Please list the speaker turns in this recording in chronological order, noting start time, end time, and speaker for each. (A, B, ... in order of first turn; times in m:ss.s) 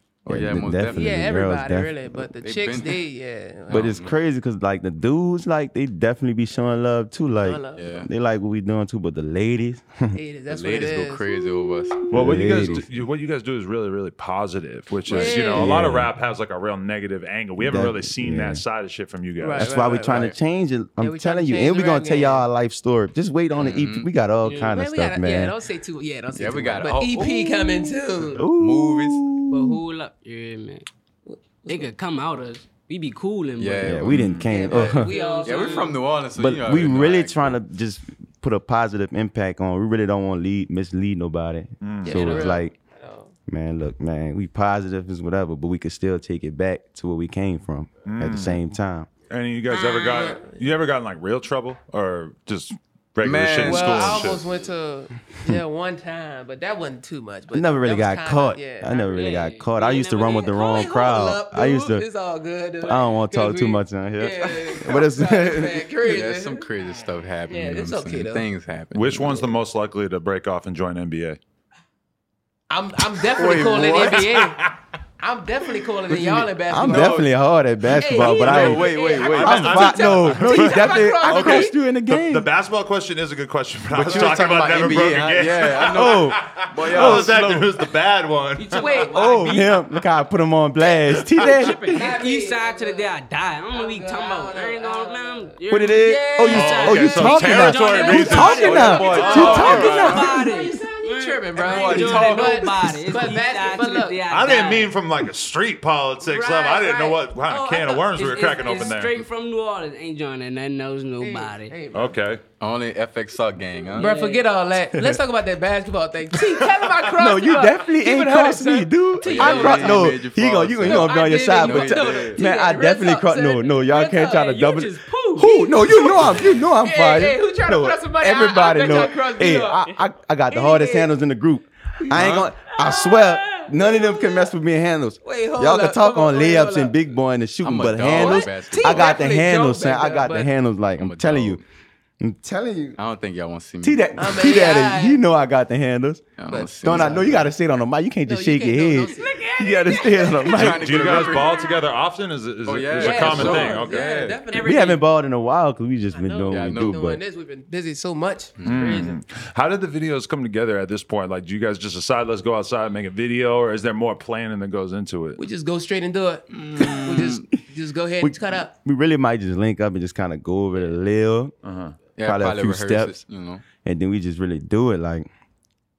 0:00.2-0:01.2 A
0:00.3-0:02.3 B
0:00.9-0:03.9 C
0:02.4-0:03.0 A
0:03.7-0:04.2 A
0:03.7-0:10.2 B
0:07.4-0:07.9 C
0:07.8-0:08.1 A
0:10.1-0:12.1 C
0:10.5-0:12.0 A
0:12.1-0:12.9 B
0:12.1-0:19.7 D
0:15.1-0:15.7 C
0:15.1-0:15.4 A
0:15.5-0:16.1 B
0:17.6-0:18.6 B
0:19.4-0:20.2 C
0:19.6-0:25.5 B
0:20.1-0:20.4 A
0:21.0-0:22.4 C
0:23.5-0:24.1 A
0:24.4-0:24.8 E
0:24.6-0:28.5 C
0:26.3-0:28.0 A
0:28.4-0:29.8 B
0:28.5-0:29.2 A
0:29.5-0:30.9 E
0:31.2-0:31.9 C
0:31.7-0:34.1 E
0:33.6-0:34.9 A
0:33.8-0:35.1 B
0:34.1-0:34.4 D
0:34.5-0:36.0 C
0:34.7-0:36.0 E
0:35.4-0:37.6 A
0:36.4-0:42.8 B
0:41.8-0:42.5 D
0:42.0-0:43.3 C
0:43.5-0:49.1 B
0:48.1-0:48.7 D
0:49.3-0:54.5 D
0:49.7-0:50.3 E
0:50.1-0:50.7 C
0:53.2-0:54.3 A
0:53.6-1:06.6 C
0:57.5-1:02.1 B
0:59.1-0:59.7 E
1:02.8-1:05.9 B
1:06.0-1:09.5 A
1:07.5-1:08.4 C
1:08.9-1:11.4 D
1:12.7-1:17.2 C
1:13.3-1:14.4 A
1:14.2-1:14.8 D
1:16.1-1:22.5 B
1:16.8-1:17.3 A
1:18.0-1:21.7 C
1:18.0-1:19.8 A
1:19.0-1:29.0 D
1:23.9-1:25.0 B
1:24.0-1:27.7 A
1:25.9-1:27.4 B
1:28.6-1:29.8 E
1:28.7-1:29.7 C
1:29.1-1:32.1 B
1:31.2-1:31.5 D
1:31.3-1:44.9 E
1:31.9-1:33.1 C
1:33.7-1:44.2 C
1:35.7-1:40.4 B
1:36.5-1:40.3 D
1:38.4-1:40.4 A
1:41.6-1:43.2 A
1:44.3-1:49.2 D
1:46.2-1:49.0 C
1:48.2-1:51.8 E
1:51.2-1:52.2 C
1:51.9-1:52.4 D
1:52.6-1:54.1 A
1:54.0-1:54.5 E
1:54.0-2:00.2 C
1:54.9-1:55.2 B
1:57.1-2:21.6 B
1:59.2-2:02.4 A
2:00.8-2:04.5 C
2:04.0-2:05.7 E
2:05.8-2:09.9 C
2:10.5-2:11.1 C
2:12.0-2:14.5 C
2:12.1-2:12.5 A
2:15.2-2:17.0 C
2:17.6-2:19.2 A
2:18.0-2:20.5 C
2:21.0-2:21.6 A
2:22.2-2:23.0 B
2:23.0-2:24.2 A
2:23.8-2:31.1 B
2:24.2-2:25.2 C
2:26.4-2:27.5 A
2:26.5-2:27.4 C
2:28.3-2:30.5 C
2:29.1-2:30.4 E
2:30.4-2:31.7 A
2:30.6-2:34.1 D
2:32.6-2:34.4 A
2:33.0-2:35.0 C
2:34.5-2:37.2 B
2:36.1-2:39.2 C
2:36.5-2:37.0 A
2:38.6-2:39.0 A
2:38.6-2:45.4 D
2:45.4-2:48.7 C
2:46.5-2:47.4 A
2:48.2-2:51.5 B
2:51.6-2:52.0 D
2:52.2-2:53.6 A
2:52.2-2:53.2 B
2:53.8-2:55.3 B